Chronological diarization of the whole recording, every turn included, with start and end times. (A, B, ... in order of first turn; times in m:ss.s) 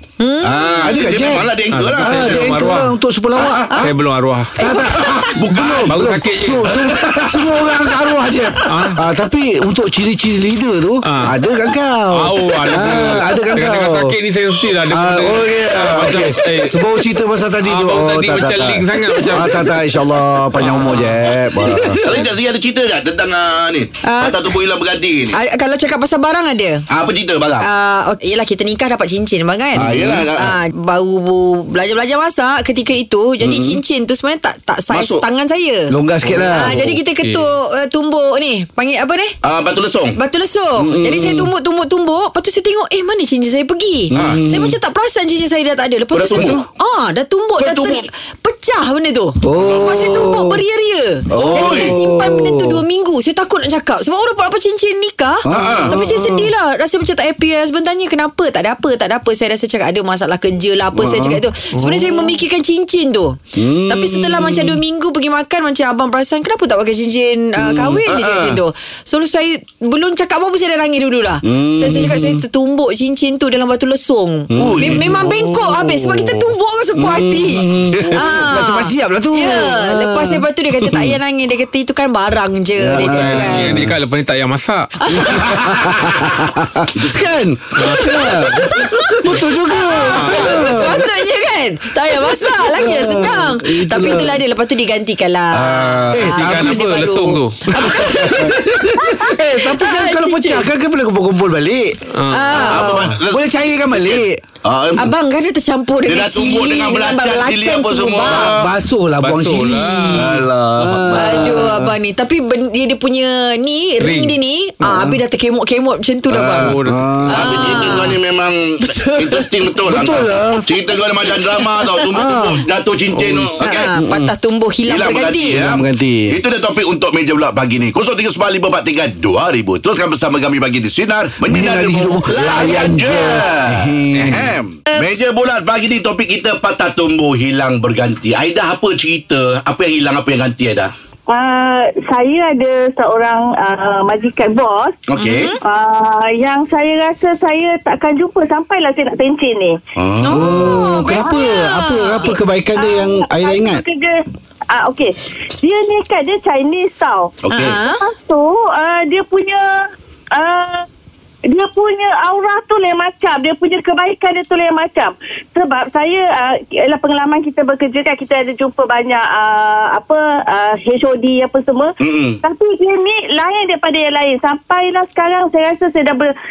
0:00.2-0:01.4 A
0:00.4-0:02.6 B
0:00.8-0:03.8 C
0:01.7-0:02.9 D
0:03.8-0:04.7 D
0:04.6-0:14.2 C
0:04.6-0:05.3 A
0:04.8-0:08.1 B
0:05.8-0:06.7 D
0:08.7-0:09.0 D
0:11.0-0:11.4 D
0:12.1-0:16.8 D
0:12.4-0:13.0 B
0:14.9-0:22.2 C
0:15.3-0:16.7 B
0:17.6-0:20.0 D
0:19.1-0:19.4 B
0:20.6-0:25.4 B
0:20.7-0:21.1 D
0:24.0-0:24.6 A
0:25.3-0:26.9 A
0:26.9-0:27.7 B
0:27.6-0:39.4 A
0:29.8-0:30.2 C
0:29.8-0:30.6 B
0:33.4-0:33.8 C
0:34.9-0:35.2 B
0:35.9-0:36.8 C
0:36.2-0:37.5 D
0:39.4-0:40.2 B
0:40.2-1:23.8 A
0:40.8-0:41.5 C
0:44.1-0:44.8 C
0:44.1-0:44.4 B
0:46.1-0:46.6 B
0:46.3-0:46.6 C
0:47.6-0:48.1 B
0:49.4-0:50.6 C
0:51.3-0:52.0 B
0:51.5-0:52.8 C
0:55.4-0:56.5 C
0:55.5-0:55.9 B
1:00.9-1:01.4 C
1:03.6-1:04.8 C
1:07.6-1:08.0 C
1:08.1-1:08.6 B
1:11.4-1:12.4 C
1:14.5-1:15.1 C
1:14.6-1:15.0 B
1:15.1-1:16.5 D
1:17.0-1:21.2 C
1:18.0-1:18.4 B
1:22.8-1:24.0 C
1:23.1-1:24.9 D
1:25.0-1:25.6 A
1:25.1-1:31.0 C
1:27.0-1:27.2 B
1:27.8-1:28.2 D
1:27.8-1:28.3 B
1:28.0-1:40.7 A
1:30.1-1:30.7 D
1:32.2-1:34.4 C
1:35.5-1:36.8 B
1:36.1-1:36.8 C
1:36.4-1:37.6 D
1:37.7-1:42.0 C
1:42.1-1:42.5 D
1:42.3-1:43.0 A
1:42.5-1:45.1 B
1:42.5-1:44.4 C
1:45.0-1:48.6 A
1:46.1-1:48.7 B
1:48.4-1:51.9 C
1:49.2-1:50.3 D
1:50.2-1:51.6 B
1:51.1-1:56.8 A
1:54.0-1:54.4 D
1:54.8-1:55.2 C
1:56.3-2:03.9 B
1:56.5-1:57.2 D
1:56.8-1:58.0 C
1:57.3-1:58.2 A
1:58.8-1:59.8 A
1:59.8-2:00.7 C
2:01.2-2:02.4 A
2:02.1-2:02.6 C
2:03.1-2:03.6 D
2:03.6-2:05.7 A
2:03.9-2:04.3 C
2:04.8-2:20.9 B
2:05.5-2:06.4 C
2:11.4-2:14.5 C
2:12.3-2:13.3 A
2:21.3-2:25.0 E
2:25.1-2:25.5 B
2:25.2-2:25.6 A
2:25.6-2:29.8 E
2:30.0-2:30.9 B
2:30.2-2:32.3 A
2:30.3-2:33.8 C
2:31.1-2:34.1 E
2:34.7-2:39.6 E
2:37.4-2:37.8 B
2:37.5-2:38.0 A
2:40.4-2:40.8 E
2:41.5-2:56.3 E
2:52.0-2:52.4 B